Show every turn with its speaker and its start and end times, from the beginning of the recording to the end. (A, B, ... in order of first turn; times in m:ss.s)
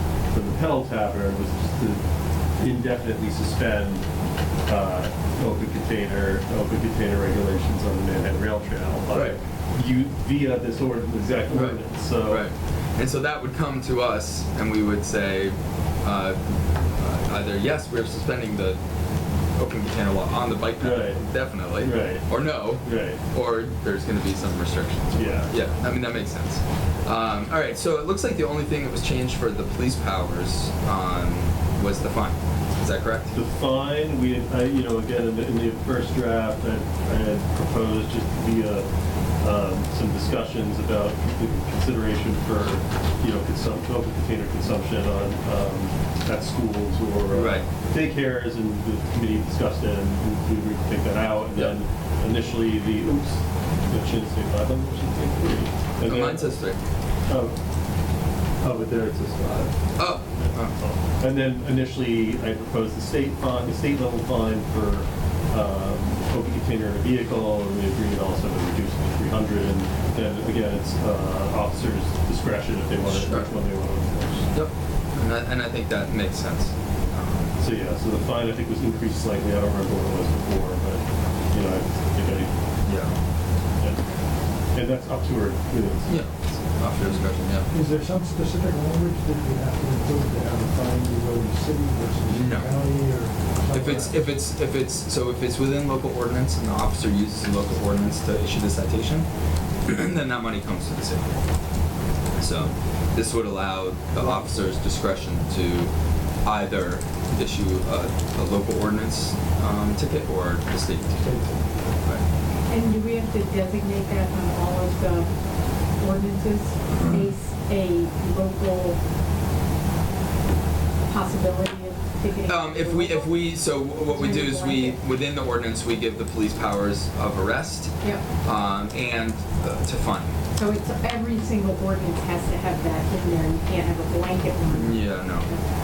0:00.3-0:02.0 A
0:02.6-0:04.0 A
0:04.7-0:12.5 A
0:09.1-0:09.4 B
0:11.5-0:18.8 B
0:19.6-0:33.3 B
0:20.8-0:21.2 A
0:21.8-0:22.3 A
0:22.8-0:23.2 A
0:25.1-0:25.5 A
0:33.3-0:38.8 A
0:39.4-0:56.6 A
0:47.3-0:47.7 B
0:56.0-0:56.8 B
0:57.3-0:57.6 A
0:58.6-0:59.8 A
1:00.0-1:00.8 B
1:00.8-1:14.4 A
1:13.0-1:13.6 B
1:14.5-1:17.6 B
1:17.6-1:22.5 A
1:22.8-1:23.2 B
1:24.7-1:26.2 A
1:26.1-1:27.7 B
1:27.7-1:34.3 C
1:32.3-1:32.8 B
1:33.7-1:39.3 B
1:39.8-1:41.3 B
1:42.4-1:45.9 B
1:46.4-1:51.3 B
1:51.2-1:51.6 C
1:52.7-1:55.3 D
1:56.0-1:59.0 D
1:56.9-1:57.3 B
2:01.1-2:03.5 D
2:02.4-2:10.3 B
2:04.1-2:05.0 D
2:10.5-2:15.6 D
2:14.7-2:15.5 B